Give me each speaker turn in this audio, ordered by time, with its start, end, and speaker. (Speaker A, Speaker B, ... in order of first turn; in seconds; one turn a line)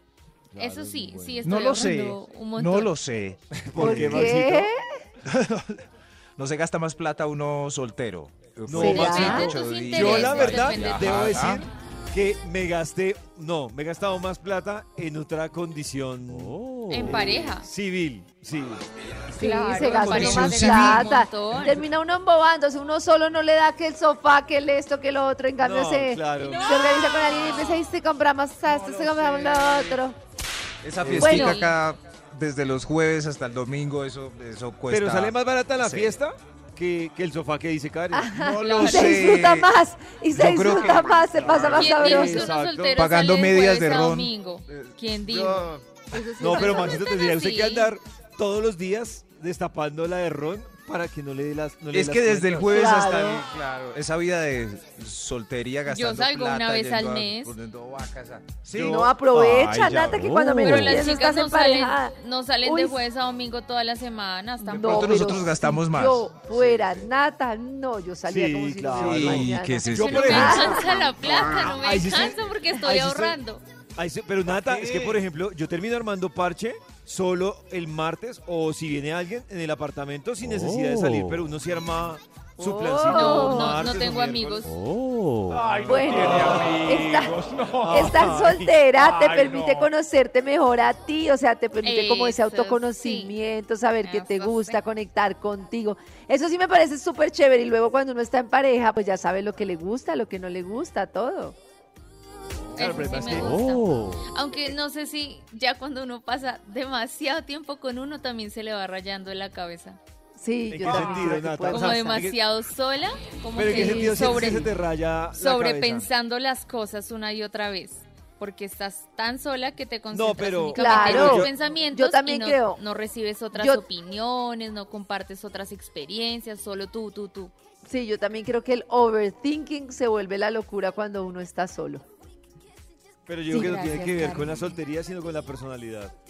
Speaker A: 0.5-1.9
Speaker B: 0.6-2.9
Speaker C: 1.4-4.3
Speaker A: 3.6-4.7
Speaker D: 3.8-4.7
Speaker C: 5.2-5.8
Speaker C: 6.3-11.6
Speaker A: 8.7-9.4
Speaker D: 8.7-9.6
Speaker B: 9.0-11.3
Speaker A: 9.9-18.9
Speaker E: 16.3-17.0
Speaker B: 16.9-17.7
Speaker B: 19.4-21.8
Speaker D: 19.4-30.2
Speaker C: 20.0-21.1
Speaker A: 25.6-26.7
Speaker B: 26.4-27.8
Speaker C: 28.7-30.0
Speaker C: 30.8-36.2
Speaker A: 31.0-31.6
Speaker D: 31.2-31.7
Speaker A: 34.9-39.1
Speaker D: 38.1-42.5
Speaker C: 38.3-39.7
Speaker B: 38.6-39.0
Speaker C: 40.3-41.4
Speaker A: 40.9-43.1
Speaker B: 41.7-47.9
Speaker C: 42.9-45.8
Speaker D: 46.1-47.1
Speaker A: 46.4-53.0
Speaker C: 51.9-60.3
Speaker D: 52.6-53.4
Speaker B: 55.9-57.5
Speaker A: 58.7-59.1
Speaker D: 58.8-63.0
Speaker E: 60.2-61.0
Speaker B: 60.6-65.3
Speaker C: 64.7-67.0
Speaker D: 64.7-70.9
Speaker A: 66.5-67.0
Speaker A: 68.3-70.6
Speaker C: 68.9-70.7
Speaker B: 69.8-73.6
Speaker A: 71.7-73.4
Speaker A: 74.0-84.8
Speaker C: 74.5-75.2
Speaker E: 80.6-81.4
Speaker D: 82.6-83.8
Speaker B: 83.0-84.7
Speaker E: 84.7-85.7
Speaker C: 85.7-87.0
Speaker D: 85.8-101.5
Speaker A: 86.2-86.8
Speaker A: 87.6-88.7
Speaker B: 91.8-93.3
Speaker B: 94.0-94.8
Speaker A: 102.7-103.6
Speaker B: 102.7-110.0
Speaker E: 103.6-104.2
Speaker D: 110.4-112.2
Speaker A: 110.7-112.4
Speaker B: 111.6-114.7
Speaker A: 113.5-116.1
Speaker B: 115.3-127.5
Speaker A: 120.1-121.5
Speaker D: 120.8-122.8
Speaker D: 123.5-123.8
Speaker D: 127.8-132.0
Speaker A: 133.3-136.1
Speaker D: 133.5-134.5
Speaker B: 133.5-134.7